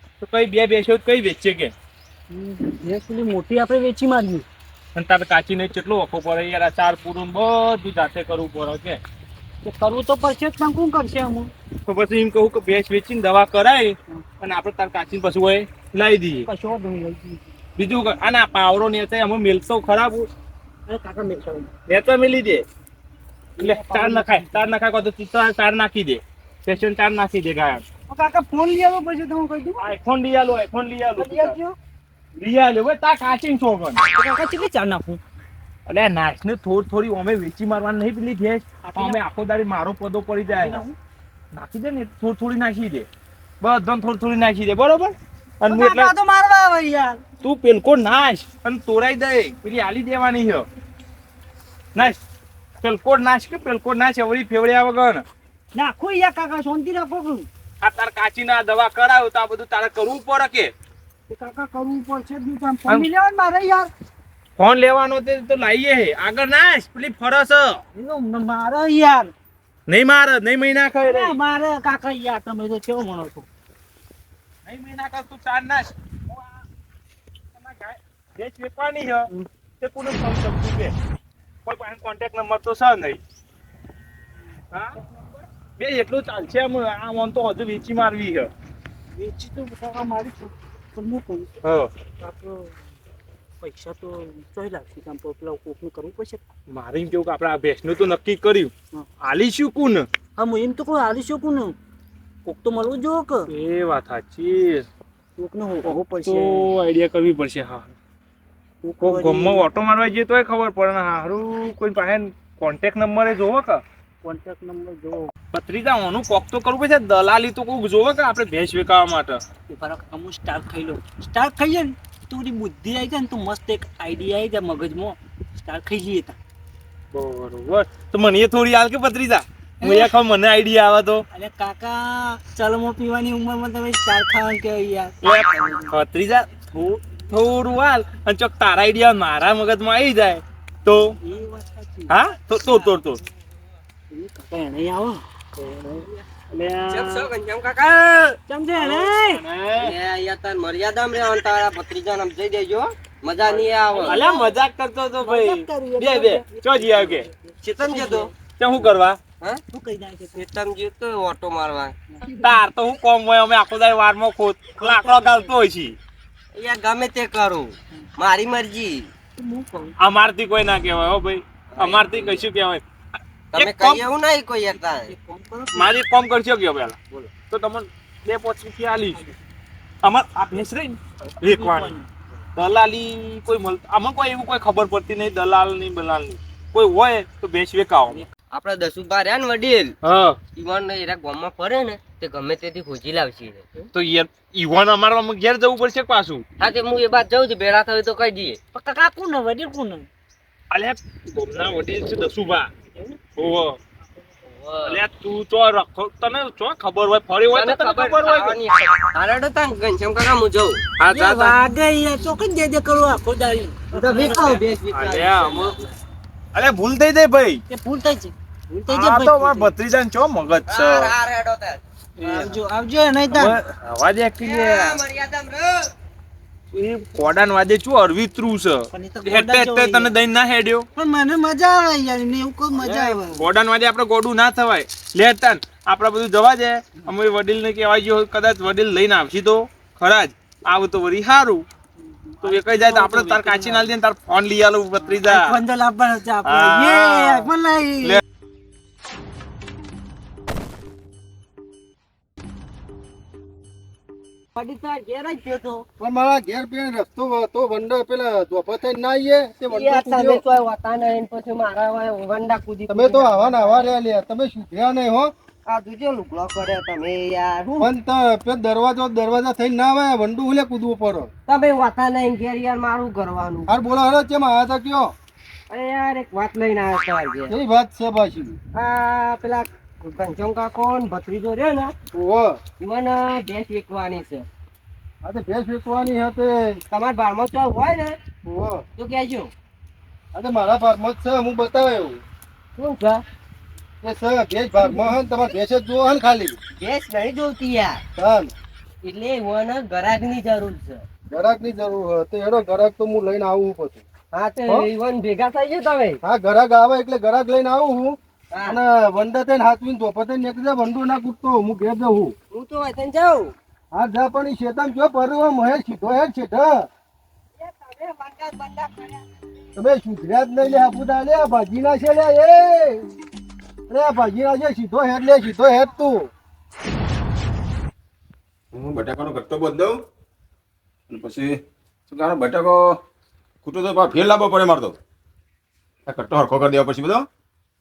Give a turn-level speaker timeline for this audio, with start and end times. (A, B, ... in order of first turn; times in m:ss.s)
0:00.2-0:01.7 A
0:02.3-0:04.4 B
0:04.9-0:09.0 A
0:09.6-0:11.5 B
0:11.8-0:16.5 A
0:16.4-0:17.4 B
0:17.8-0:20.3 A
0:20.9-0:21.7 B
0:21.9-0:22.6 A
0:23.6-0:24.7 B
0:23.6-0:27.8 A
0:28.1-0:29.9 B
0:29.8-0:31.6 A
0:31.2-0:31.8 B
0:32.4-0:34.0 A
0:34.1-0:35.2 B
0:35.9-0:40.8 A
0:38.8-0:39.2 B
0:40.5-0:40.9 B
0:41.5-0:43.1 A
0:43.6-0:46.1 A
0:45.6-0:47.2 B
0:47.4-0:50.7 A
0:52.8-0:55.2 A
0:55.7-0:57.5 B
0:57.8-1:00.7 A
1:01.3-1:03.9 B
1:04.6-1:07.8 A
1:07.9-1:09.3 B
1:09.9-1:11.4 A
1:11.0-1:13.5 B
1:14.6-1:16.6 A
1:17.5-1:19.3 A
1:19.8-1:20.9 A
1:21.6-1:23.2 A
1:25.8-1:28.5 A
1:29.1-1:31.5 B
1:31.6-1:31.9 A
1:32.2-1:32.7 B
1:33.6-1:36.4 B
1:36.7-1:40.1 A
1:40.4-1:41.7 B
1:42.4-1:43.5 B
1:43.5-1:44.8 A
1:45.4-1:46.7 B
1:45.8-1:47.9 A
1:48.8-1:49.7 B
1:49.0-1:53.8 A
1:54.2-1:55.3 B
1:55.5-1:59.4 A
1:59.7-2:06.4 B
2:07.1-2:11.2 A
2:09.8-2:10.1 B
2:11.3-2:15.9 B
2:15.2-2:21.2 A
2:21.2-2:22.1 B
2:22.1-2:23.2 A
2:24.1-2:27.3 B
2:26.9-2:28.4 C
2:28.5-2:29.4 B
2:28.8-2:29.9 A
2:29.8-2:34.2 C
2:33.5-2:37.3 A
2:34.0-2:34.5 B
2:35.2-2:38.3 B
2:37.6-2:38.8 C
2:38.6-2:39.2 A
2:39.7-2:40.4 B
2:40.3-2:41.9 C
2:42.1-2:42.4 B
2:42.4-2:46.0 A
2:44.8-2:45.5 B
2:46.5-2:49.1 C
2:49.4-2:49.9 B
2:50.0-2:52.8 A
2:51.7-2:52.4 C
2:53.5-2:55.1 C
2:53.5-2:54.0 A
2:54.7-2:55.9 B
2:55.7-2:59.2 A
3:00.0-3:01.9 A
3:01.4-3:02.1 B
3:02.5-3:08.2 A
3:08.5-3:09.9 C
3:10.0-3:10.4 A
3:10.5-3:13.7 C
3:13.9-3:16.4 A
3:16.6-3:18.6 C
3:18.7-3:20.1 B
3:20.7-3:22.7 A
3:23.4-3:23.8 A
3:24.4-3:25.0 C
3:24.8-3:28.6 A
3:27.5-3:31.5 C
3:31.0-3:31.5 A
3:31.1-3:34.6 B
3:33.9-3:36.0 C
3:34.3-3:35.8 A
3:36.5-3:37.6 A
3:37.7-3:39.7 B
3:38.9-3:41.2 A
3:40.7-3:41.8 C
3:42.2-3:42.6 A
3:42.2-3:43.6 B
3:43.3-3:45.0 A
3:44.4-3:45.9 C
3:46.7-3:50.8 A
3:48.9-3:50.1 B
3:50.9-3:53.4 B
3:53.0-4:01.6 A
4:02.0-4:03.9 B
4:02.4-4:05.5 A
4:05.0-4:08.2 B
4:06.4-4:07.5 A
4:14.6-4:15.8 C
4:16.0-4:20.4 D
4:19.7-4:23.9 C
4:22.9-4:25.3 D
4:25.7-4:27.9 C
4:27.8-4:31.3 D
4:31.5-4:33.7 C
4:33.7-4:35.1 D
4:35.7-4:37.5 C
4:37.5-4:38.6 D
4:38.7-4:41.9 C
4:42.1-4:42.6 D
4:42.8-4:44.4 C
4:45.2-4:46.8 D
4:46.9-4:48.2 C
4:48.4-4:48.8 D
4:49.0-4:49.5 C
4:50.3-4:52.2 D
4:52.8-4:53.2 C
4:54.0-4:56.6 D
4:56.8-4:58.0 C
4:58.2-4:58.5 D
4:59.0-5:01.0 C
5:01.3-5:04.0 D
5:04.3-5:06.2 C
5:06.2-5:12.3 D
5:08.5-5:08.8 C
5:12.5-5:13.5 C
5:13.9-5:16.9 D
5:17.6-5:19.2 C
5:19.8-5:23.0 D
5:23.9-5:26.3 D
5:28.7-5:30.0 E
5:31.1-5:33.0 E
5:33.6-5:35.0 E
5:36.0-5:37.3 E